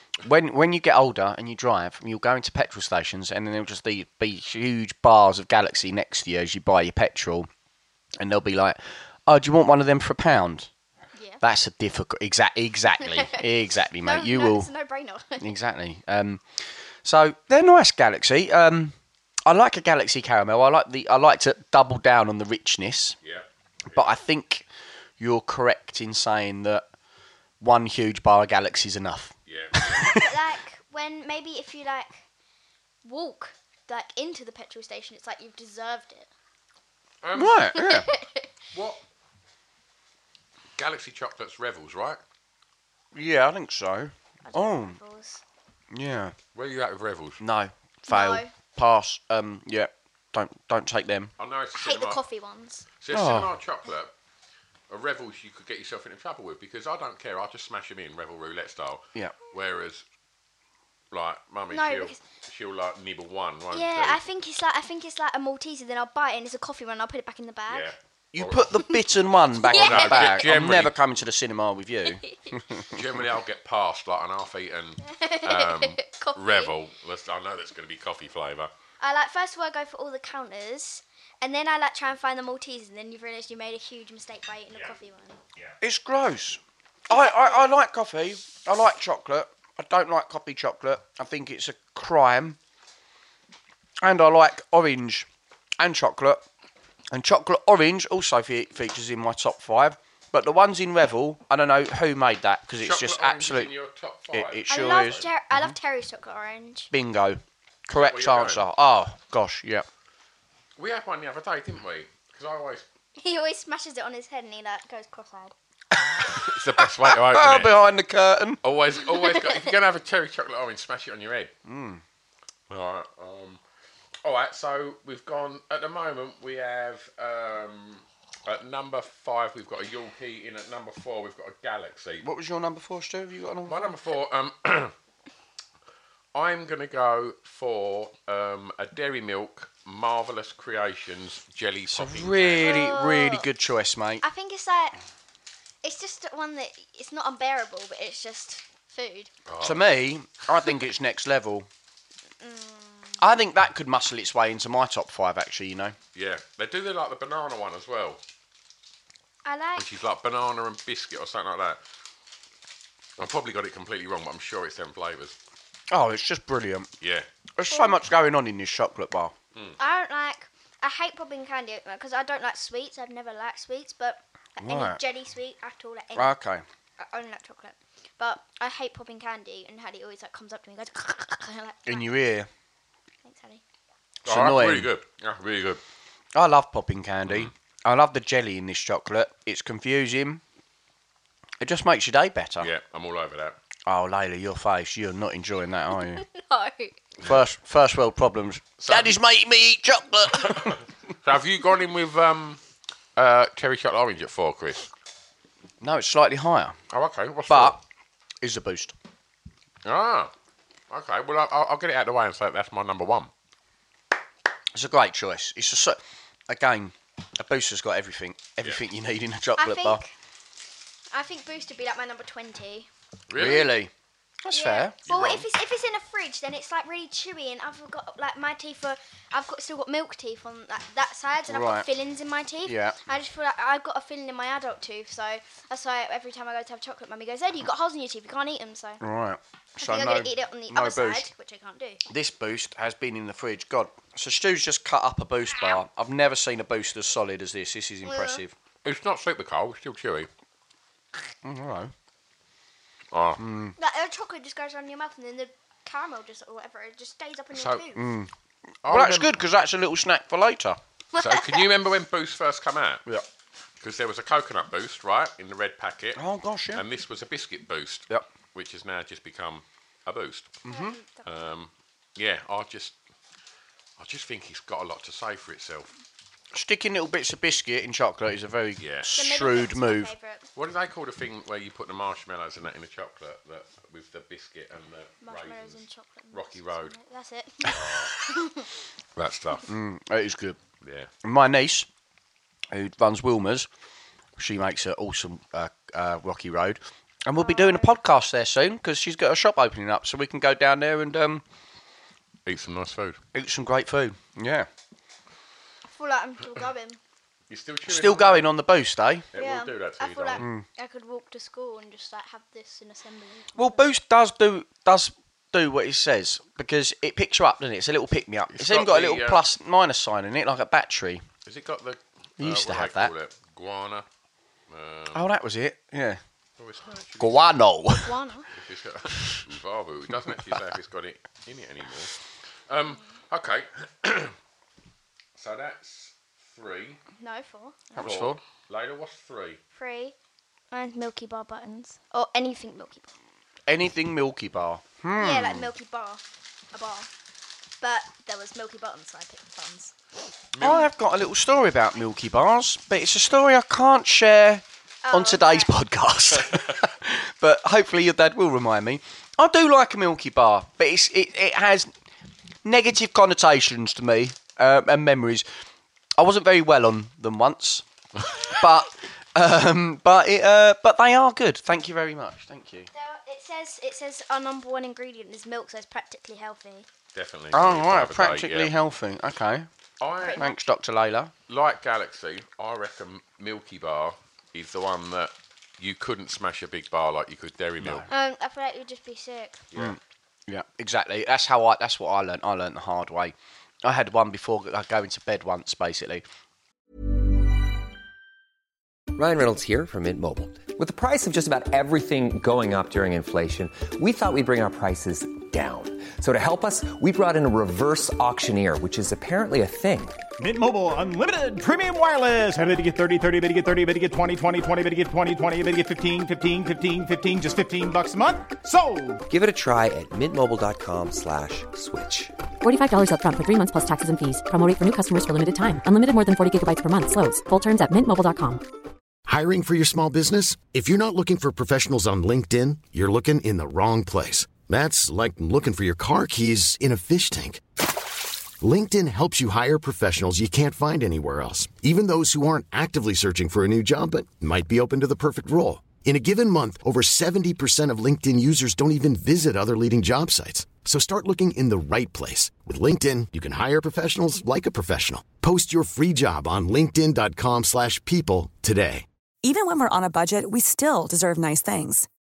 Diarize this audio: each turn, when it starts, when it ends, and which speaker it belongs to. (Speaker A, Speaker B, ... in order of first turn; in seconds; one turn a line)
Speaker A: 0.2-7.5
Speaker A: 8.2-10.7
Speaker B: 11.2-11.4
Speaker A: 11.4-14.7
Speaker B: 13.0-15.5
Speaker A: 15.4-18.9
Speaker A: 19.5-23.2
Speaker C: 23.2-24.1
Speaker A: 23.9-24.7
Speaker A: 25.2-26.9
Speaker A: 27.6-30.3
Speaker C: 29.5-30.2
Speaker B: 30.0-32.2
Speaker B: 33.0-36.3
Speaker C: 37.2-37.8
Speaker A: 37.4-38.1
Speaker B: 37.8-38.5
Speaker C: 38.7-39.0
Speaker C: 40.8-42.2
Speaker A: 43.1-45.0
Speaker B: 44.4-45.4
Speaker A: 45.9-46.4
Speaker C: 46.5-47.4
Speaker A: 47.4-51.3
Speaker B: 48.1-48.5
Speaker C: 51.4-52.2
Speaker B: 51.8-52.9
Speaker C: 53.0-54.1
Speaker A: 53.1-53.5
Speaker C: 54.9-60.0
Speaker C: 61.1-64.2
Speaker B: 61.7-62.2
Speaker B: 63.7-67.9
Speaker C: 67.7-68.7
Speaker A: 68.3-73.0
Speaker B: 69.6-70.5
Speaker C: 69.7-71.0
Speaker B: 72.1-72.6
Speaker C: 72.9-78.7
Speaker B: 75.0-76.7
Speaker B: 79.0-85.4
Speaker A: 85.8-92.6
Speaker B: 87.1-87.7
Speaker A: 94.0-95.3
Speaker A: 95.8-96.5
Speaker A: 97.1-103.7
Speaker C: 102.8-105.2
Speaker A: 104.3-105.7
Speaker B: 104.7-106.9
Speaker A: 106.9-109.9
Speaker C: 108.0-108.6
Speaker C: 110.8-112.8
Speaker B: 113.2-115.5
Speaker A: 115.9-118.6
Speaker C: 116.3-117.8
Speaker C: 118.6-121.5
Speaker B: 119.2-119.6
Speaker A: 121.7-122.0
Speaker C: 122.7-123.6
Speaker C: 124.2-132.2
Speaker A: 132.2-133.9
Speaker C: 133.7-134.9
Speaker C: 136.3-142.9
Speaker A: 141.9-144.2
Speaker B: 142.6-143.5
Speaker B: 144.2-145.0
Speaker B: 145.8-149.3
Speaker C: 149.5-149.9
Speaker A: 149.6-151.7
Speaker B: 152.4-153.2
Speaker A: 153.2-156.0
Speaker C: 156.2-158.2
Speaker B: 159.4-159.9
Speaker C: 159.8-161.8
Speaker C: 163.2-165.4
Speaker A: 165.9-166.9
Speaker C: 167.0-167.3
Speaker A: 167.6-169.3
Speaker B: 167.7-168.0
Speaker B: 169.8-176.4
Speaker A: 174.6-175.0
Speaker A: 176.2-176.6
Speaker B: 177.0-182.2
Speaker A: 181.9-182.5
Speaker B: 183.2-183.6
Speaker A: 184.2-184.9
Speaker C: 184.2-185.8
Speaker A: 186.3-190.4
Speaker C: 187.3-187.5
Speaker A: 191.6-192.7
Speaker C: 192.6-193.6
Speaker A: 193.9-196.2
Speaker B: 196.1-197.0
Speaker A: 197.2-200.8
Speaker C: 198.8-199.2
Speaker C: 200.4-202.6
Speaker C: 203.2-204.9
Speaker A: 205.8-206.8
Speaker C: 206.9-207.8
Speaker A: 207.5-207.8
Speaker A: 208.4-208.9
Speaker C: 209.8-210.3
Speaker C: 210.9-213.3
Speaker A: 214.7-220.0
Speaker B: 219.6-220.1
Speaker B: 221.1-222.9
Speaker C: 223.3-223.7
Speaker A: 223.3-223.9
Speaker A: 224.4-225.0
Speaker B: 224.5-239.0
Speaker C: 225.1-225.5
Speaker A: 231.5-231.9
Speaker A: 232.7-233.0
Speaker A: 239.0-241.3
Speaker B: 239.8-242.0
Speaker A: 242.1-248.5
Speaker B: 245.5-245.8
Speaker B: 248.1-248.4
Speaker C: 248.8-250.3
Speaker A: 251.4-251.9
Speaker C: 253.1-253.4
Speaker A: 253.4-253.8
Speaker B: 253.8-258.0
Speaker C: 257.5-257.8
Speaker A: 257.9-258.3
Speaker C: 258.8-259.4
Speaker A: 258.9-260.8
Speaker B: 261.1-261.7
Speaker C: 261.2-263.0
Speaker C: 263.8-266.2
Speaker A: 266.2-266.8
Speaker C: 266.7-270.6
Speaker A: 270.7-271.0
Speaker B: 270.7-271.3
Speaker C: 271.2-273.0
Speaker C: 274.0-275.9
Speaker A: 276.5-280.1
Speaker C: 278.8-279.1
Speaker B: 279.2-280.5
Speaker C: 280.6-286.9
Speaker B: 285.2-288.7
Speaker C: 287.6-288.2
Speaker C: 289.2-289.7
Speaker A: 289.7-290.6
Speaker C: 290.8-291.1
Speaker A: 291.2-291.9
Speaker A: 292.7-293.7
Speaker A: 294.4-301.4
Speaker B: 297.4-297.9
Speaker C: 302.5-303.2
Speaker A: 303.3-304.7
Speaker B: 305.9-307.0
Speaker C: 307.5-308.5
Speaker A: 307.9-309.3
Speaker C: 309.3-310.4
Speaker B: 309.4-313.9
Speaker A: 310.4-310.6
Speaker A: 313.6-321.2
Speaker C: 318.5-319.4
Speaker C: 321.5-324.1
Speaker A: 322.4-323.1
Speaker C: 324.7-325.3
Speaker A: 325.1-326.2
Speaker C: 326.6-327.5
Speaker A: 327.2-328.1
Speaker B: 328.0-328.5
Speaker C: 328.5-332.1
Speaker C: 332.7-334.3
Speaker C: 335.4-337.0
Speaker B: 337.2-338.1
Speaker A: 337.9-338.4
Speaker C: 338.0-339.6
Speaker B: 339.7-340.2
Speaker B: 340.7-343.1
Speaker A: 343.7-345.7
Speaker B: 345.1-347.1
Speaker B: 347.8-350.0
Speaker C: 350.5-350.9
Speaker A: 350.6-361.9
Speaker B: 355.0-355.7
Speaker A: 362.6-365.5
Speaker A: 366.2-367.9
Speaker A: 368.4-372.9
Speaker B: 372.9-376.9
Speaker C: 377.1-378.7
Speaker A: 377.5-379.7
Speaker C: 380.0-380.4
Speaker B: 380.2-380.5
Speaker A: 380.4-381.3
Speaker C: 381.5-388.1
Speaker A: 387.8-388.1
Speaker B: 388.1-389.6
Speaker C: 389.7-390.0
Speaker A: 389.8-396.2
Speaker D: 399.1-410.2
Speaker E: 410.4-419.2
Speaker D: 419.3-422.3
Speaker F: 422.6-428.6
Speaker G: 429.3-437.6
Speaker G: 438.6-459.1
Speaker H: 459.4-462.1